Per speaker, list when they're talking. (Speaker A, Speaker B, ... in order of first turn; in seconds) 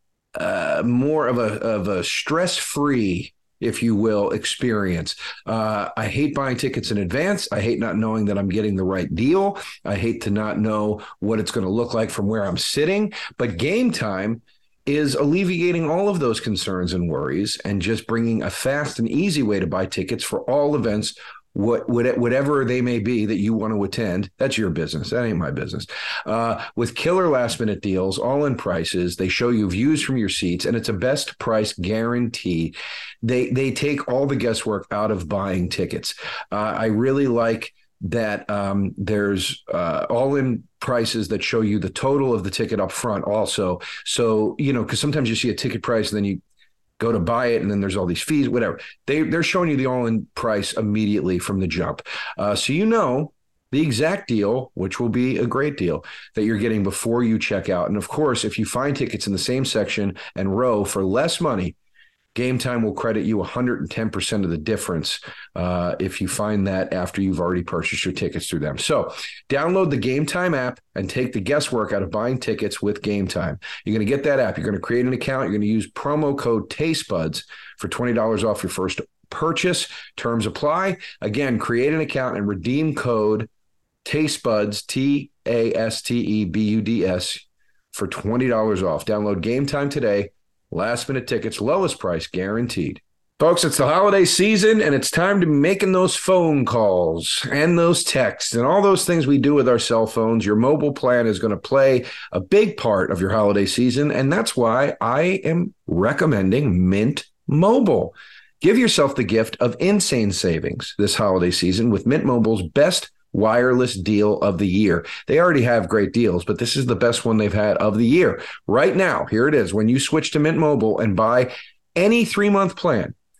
Speaker A: 0.3-46.4, 47.0-61.8, 62.3-83.5, 84.0-123.1